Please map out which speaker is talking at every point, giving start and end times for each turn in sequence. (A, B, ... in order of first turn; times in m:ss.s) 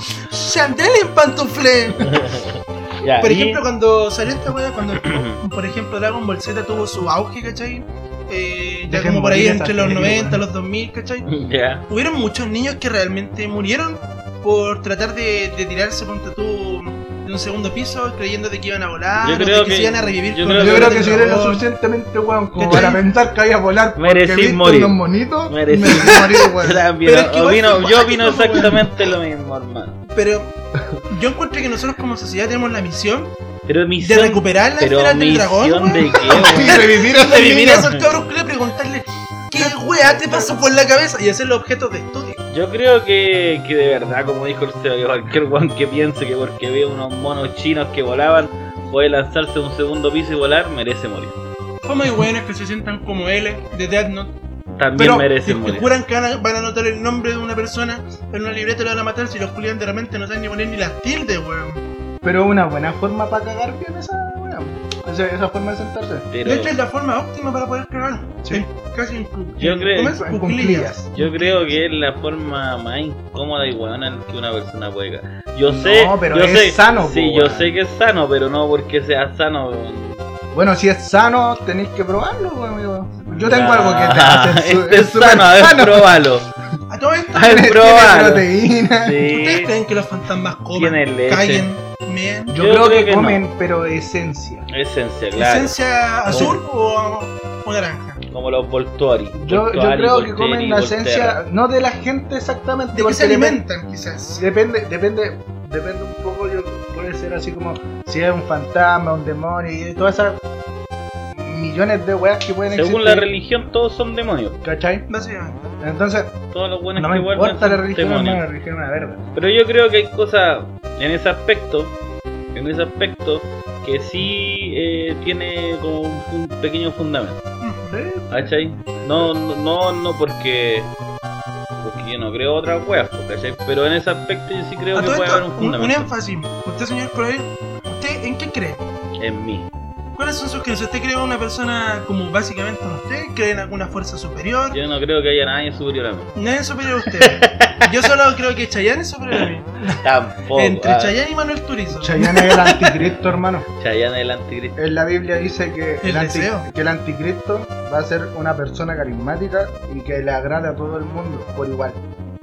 0:00.3-0:02.1 A
0:02.0-0:03.6 B
0:03.2-0:11.3 A
0:05.0-0:05.4 B
0:08.9-0:10.4 C
0:11.3-0:11.8 B
0:11.9-0:21.6 A
0:19.2-0:21.1 B
0:20.6-0:26.8 C
0:22.6-0:23.0 A
0:24.0-0:30.0 B
0:26.1-0:26.4 A
0:27.0-0:28.9 A
0:30.1-0:30.5 A
0:31.1-0:33.3 A
0:33.6-0:36.8 B
0:34.0-0:42.4 A
0:36.2-0:37.9 C
0:39.5-0:40.6 C
0:42.5-0:51.4 B
0:51.8-0:54.3 A
0:54.8-0:55.9 B
0:55.0-1:01.8 A
1:02.2-1:06.3 C
1:06.3-1:06.7 B
1:06.4-1:11.6 A
1:09.6-1:10.2 B
1:10.1-1:11.1 C
1:11.1-1:20.2 B
1:15.6-1:17.7 C
1:20.5-1:26.1 C
1:23.4-1:26.5 B
1:26.9-1:27.7 A
1:27.3-1:28.5 B
1:27.4-1:29.2 C
1:29.0-1:29.7 B
1:29.2-1:32.6 A
1:30.7-1:31.7 B
1:32.5-1:34.7 C
1:32.6-1:33.4 B
1:34.7-1:35.7 B
1:35.4-1:38.2 A
1:36.3-1:36.6 C
1:36.3-1:36.6 B
1:38.3-1:41.4 B
1:39.3-1:43.6 C
1:42.9-1:44.4 A
1:44.4-1:50.4 C
1:51.3-1:53.3 C
1:52.7-1:54.6 B
1:54.6-1:55.0 C
1:55.1-1:55.7 A
1:55.8-1:56.4 C
1:56.5-1:58.4 B
1:57.0-1:59.2 C
1:59.3-2:01.9 B
2:02.5-2:07.4 B
2:07.6-2:08.0 A
2:07.9-2:09.3 C
2:08.3-2:10.9 B
2:11.8-2:16.1 B
2:14.9-2:18.8 A
2:19.2-2:19.7 B
2:20.2-2:24.8 A
2:24.7-2:26.3 B
2:26.4-2:30.0 A
2:27.2-2:27.8 B
2:30.0-2:31.1 B
2:30.5-2:33.1 A
2:31.9-2:33.7 C
2:33.8-2:34.8 B
2:34.8-2:42.0 C
2:36.0-2:36.7 A